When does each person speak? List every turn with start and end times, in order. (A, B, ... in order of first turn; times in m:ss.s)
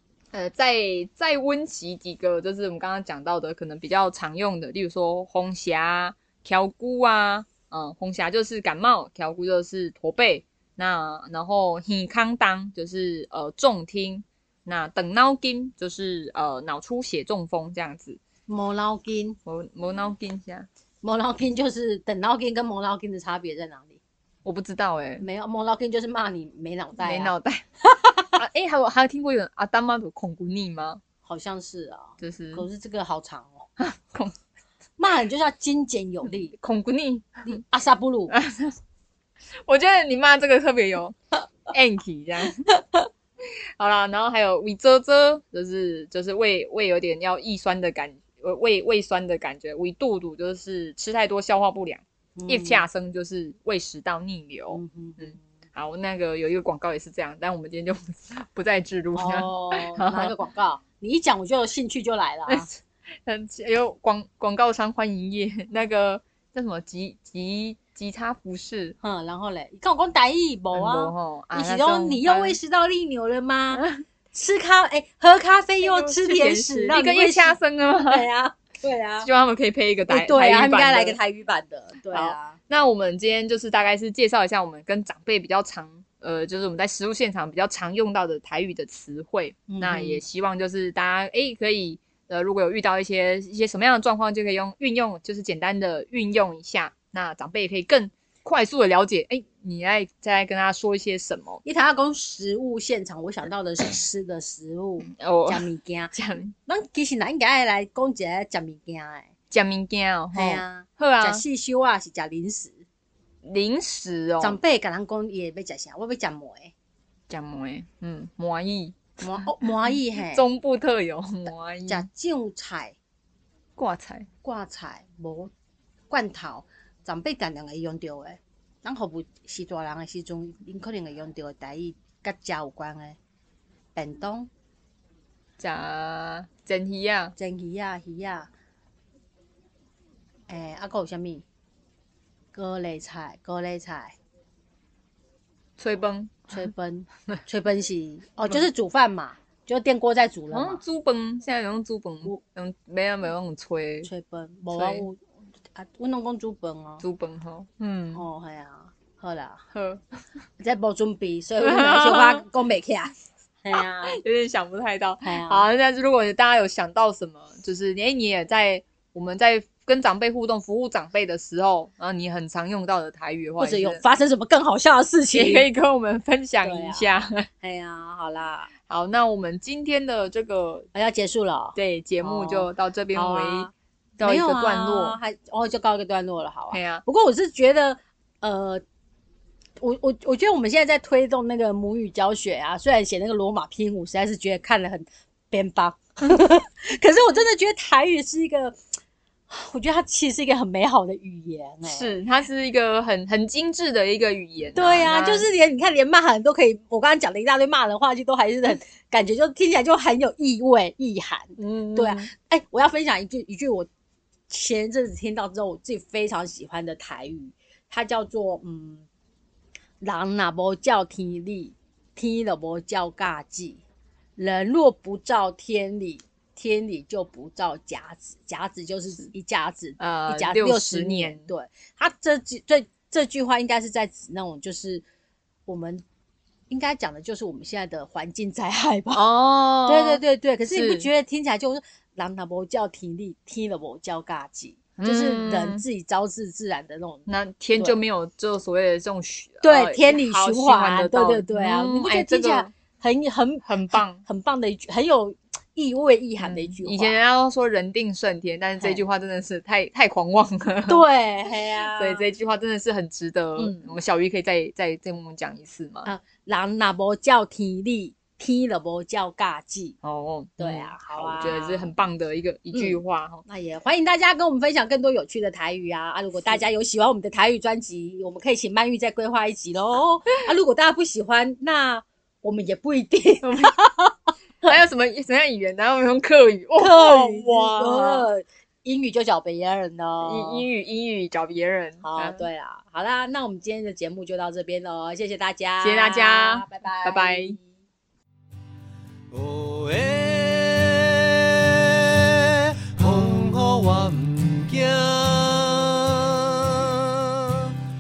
0:00.3-0:18.2 A
0:18.5-0:19.4 B
0:19.5-0:20.7 A
0:21.0-0:24.0 B
0:24.4-0:25.2 A
0:25.2-0:27.3 B
0:27.0-0:27.7 A
0:27.8-0:28.3 B
0:28.4-0:31.0 A
0:31.2-0:33.7 B
0:32.2-0:32.7 A
0:33.8-0:34.4 A
0:35.0-0:36.6 B
0:36.3-0:37.6 A
0:37.4-0:38.4 B
0:38.3-0:38.8 A
0:39.6-0:42.7 A
0:43.8-1:00.3 A
0:52.4-0:52.8 B
0:54.7-0:55.4 B
0:59.2-1:02.7 B
1:02.5-1:09.0 A
1:09.0-1:19.3 B
1:10.7-1:12.6 A
1:13.7-1:14.0 A
1:15.8-1:18.3 A
1:19.2-1:21.2 A
1:20.1-1:22.6 B
1:22.1-1:41.6 A
1:29.7-1:30.2 B
1:41.6-1:46.2 B
1:45.1-1:46.5 A
1:46.7-1:49.3 B
1:49.5-1:51.4 A
1:50.3-1:52.8 B
1:53.4-1:54.6 A
1:54.4-1:56.7 B
1:57.3-1:59.1 A
1:59.2-2:00.4 B
1:59.6-2:02.1 A
2:01.9-2:03.0 B
2:03.8-2:04.3 A
2:04.4-2:05.5 B
2:06.1-2:13.2 B
2:14.0-2:14.5 B
2:15.6-2:17.4 A
2:17.4-2:18.5 B
2:20.5-2:21.4 B
2:22.5-2:24.2 B
2:25.8-2:26.7 A
2:26.5-2:30.8 B
2:30.5-2:34.1 A
2:34.0-2:35.2 B
2:34.7-2:35.1 A
2:35.8-2:37.0 B
2:37.0-2:38.2 A
2:38.1-2:39.6 B
2:39.7-2:40.0 A
2:40.6-2:44.2 B
2:41.6-2:42.5 A
2:43.7-2:54.0 A
2:45.2-2:45.7 B
2:53.6-2:55.7 B
2:55.3-2:57.5 A
2:56.6-2:58.7 B
2:58.9-3:00.9 A
3:00.9-3:08.8 B
3:01.8-3:05.2 A
3:06.7-3:07.0 A
3:09.8-3:18.8 B
3:19.5-3:22.1 B
3:21.9-3:25.5 A
3:24.8-3:33.9 B
3:31.6-3:32.3 A
3:34.5-3:39.1 B
3:40.0-3:43.8 B
3:44.4-3:55.0 B
3:50.0-3:51.5 A
3:55.7-3:56.0 B
3:56.7-3:59.2 B
3:59.1-4:01.1 A
3:59.9-4:08.0 B
4:05.0-4:05.8 A
4:07.3-4:12.7 A
4:09.6-4:17.2 B
4:13.6-4:14.2 A
4:16.4-4:21.0 A
4:20.9-4:22.3 B
4:22.0-4:26.1 A
4:23.6-4:23.9 B
4:26.0-4:30.0 B
4:30.0-4:33.4 A
4:30.6-4:31.9 B
4:32.7-4:44.2 B
4:43.4-4:43.8 A
4:44.6-4:48.3 A
4:46.8-4:50.7 B
4:50.2-4:52.4 A
4:52.0-4:57.8 B
4:55.8-4:57.6 A
4:59.3-5:07.8 C